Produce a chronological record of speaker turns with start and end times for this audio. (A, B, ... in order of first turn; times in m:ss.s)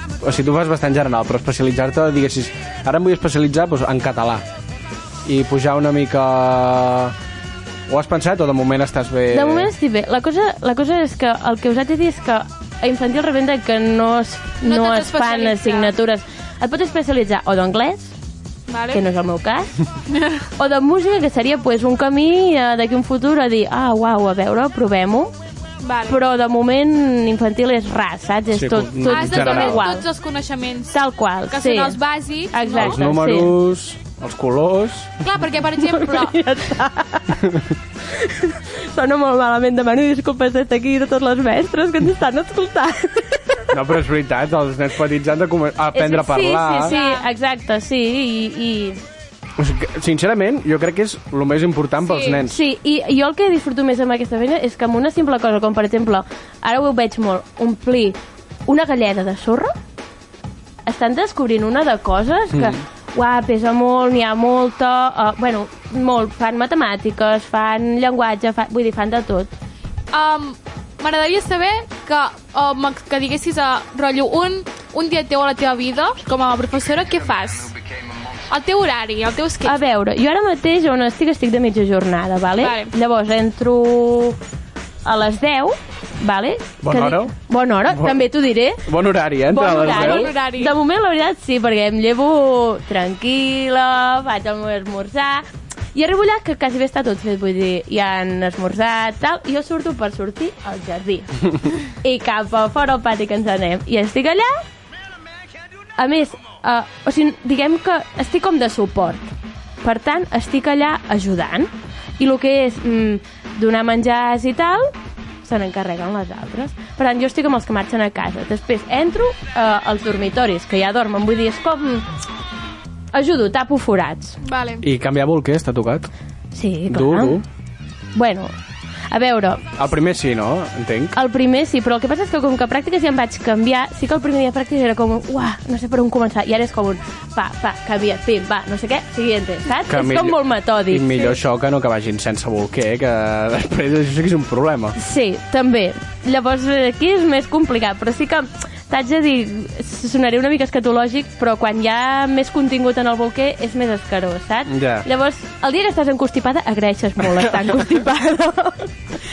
0:00.2-0:04.4 A
0:05.2-0:07.2 A
0:07.9-0:09.7 A
0:09.3-0:18.1 B
0:14.6-0:15.9 C
0:18.7-0:19.0 C
0:18.9-0:19.7 B
0:20.6-0:25.3 B
0:25.8-0:26.2 C
0:26.1-0:30.1 B
0:28.5-0:29.9 A
0:29.0-0:33.0 C
0:30.9-0:32.0 B
0:32.5-0:33.5 B
0:32.8-0:35.2 A
0:35.2-0:36.4 C
0:35.8-0:37.4 B
0:38.2-0:43.6 B
0:43.7-0:47.0 A
0:45.9-0:49.0 B
0:46.8-0:47.3 C
0:49.6-0:52.6 A
0:52.0-0:52.4 C
0:52.5-0:59.7 B
1:00.9-1:09.5 B
1:02.5-1:02.8 A
1:10.1-1:17.7 C
1:18.5-1:19.8 C
1:19.6-1:24.4 B
1:22.6-1:22.9 C
1:25.0-1:28.8 B
1:26.8-1:27.4 A
1:27.9-1:28.2 A
1:28.9-1:30.3 A
1:29.5-1:44.6 B
1:29.6-1:30.8 C
1:46.0-1:49.3 B
1:49.8-1:54.9 B
1:55.4-2:02.1 B
2:03.1-2:04.4 B
2:04.4-2:04.8 C
2:04.8-2:06.1 A
2:06.5-2:07.4 B
2:06.9-2:07.4 A
2:08.2-2:08.5 B
2:09.1-2:09.8 B
2:09.8-2:11.2 A
2:11.2-2:21.3 B
2:19.9-2:25.0 A
2:25.0-2:38.9 B
2:34.7-2:35.1 A
2:37.4-2:37.7 A